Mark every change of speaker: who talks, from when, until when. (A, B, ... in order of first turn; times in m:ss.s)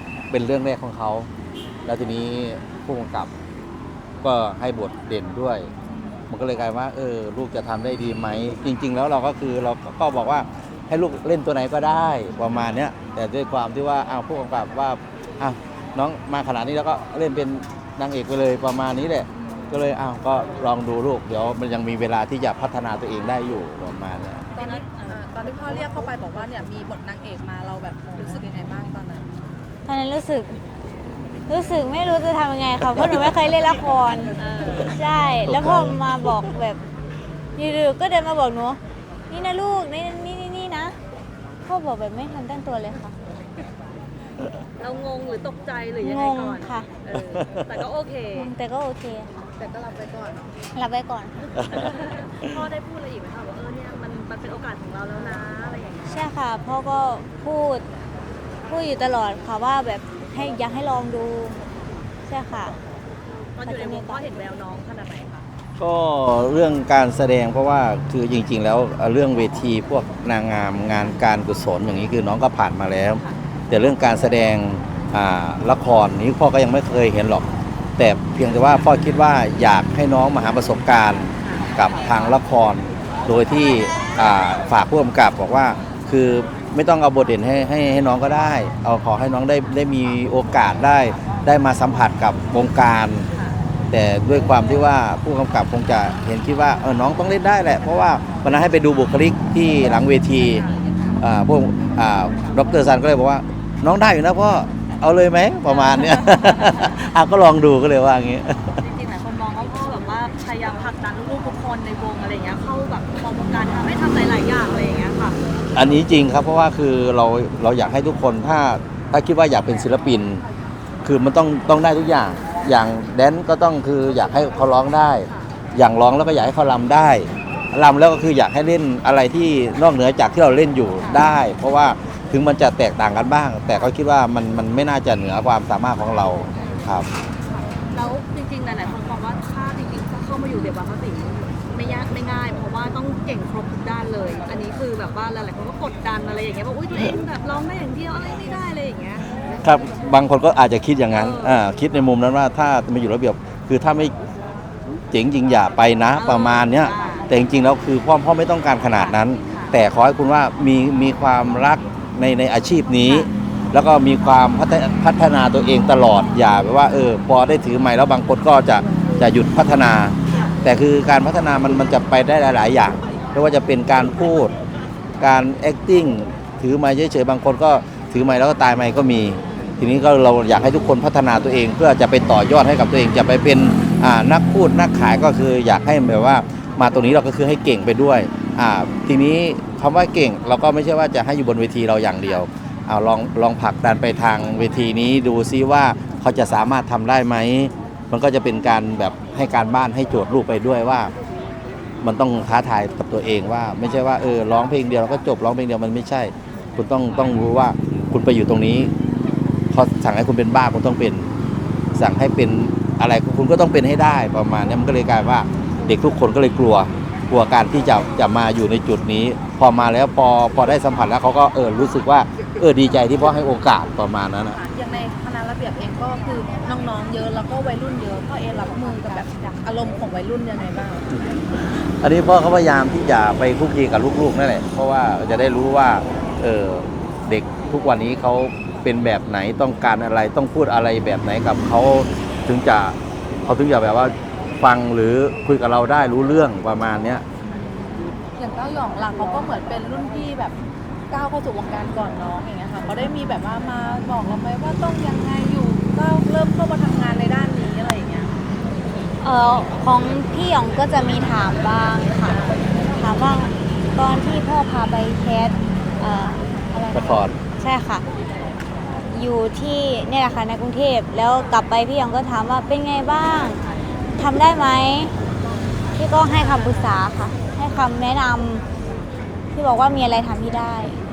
0:00.3-0:01.3 A
0:01.9-0:03.3 A
0:04.2-0:05.7 A
0:06.3-0:24.4 A
0:24.5-0:25.2 B
0:24.5-0:29.3 C
0:29.9-0:30.6 D
0:31.5-0:36.8 D
0:34.4-0:34.9 B
0:35.5-0:36.5 A
0:37.6-0:38.8 D
0:39.3-0:41.0 D
0:41.7-0:43.1 D
0:44.8-0:48.5 B
0:46.0-0:46.9 D
0:47.2-0:47.8 A
0:48.3-0:49.3 D
0:49.6-0:50.5 C
0:50.8-0:51.7 D
0:51.6-0:51.9 A
0:51.8-0:56.2 B
0:56.1-0:57.8 D
0:58.7-1:01.6 D
1:02.3-1:02.8 D
1:03.6-1:05.4 B
1:03.6-1:04.2 D
1:05.8-1:17.4 A
1:18.0-1:33.3 A
1:21.4-1:21.7 B
1:33.9-1:40.6 A
1:41.2-1:48.8 A
1:45.6-1:46.8 B
1:48.8-1:55.4 B
1:55.7-2:00.4 A
2:01.0-2:17.1 A
2:11.0-2:11.3 B
2:16.6-2:16.8 B
2:17.5-2:29.2 B
2:29.6-2:34.1 A
2:31.1-2:31.6 B
2:35.1-2:54.5 A
2:36.2-2:37.3 B
2:39.0-2:39.7 B
2:42.9-2:43.3 B
2:55.2-3:21.1 A
3:22.0-3:28.9 A
3:29.7-3:31.3 A
3:32.0-3:44.6 A
3:44.5-3:51.1 C
3:51.6-4:07.2 A
4:08.4-4:10.6 C
4:11.1-4:18.3 C
4:19.2-4:28.0 D
4:26.9-4:27.4 A
4:29.1-4:33.6 D
4:34.2-4:35.1 D
4:36.0-4:38.6 D
4:39.5-4:41.0 D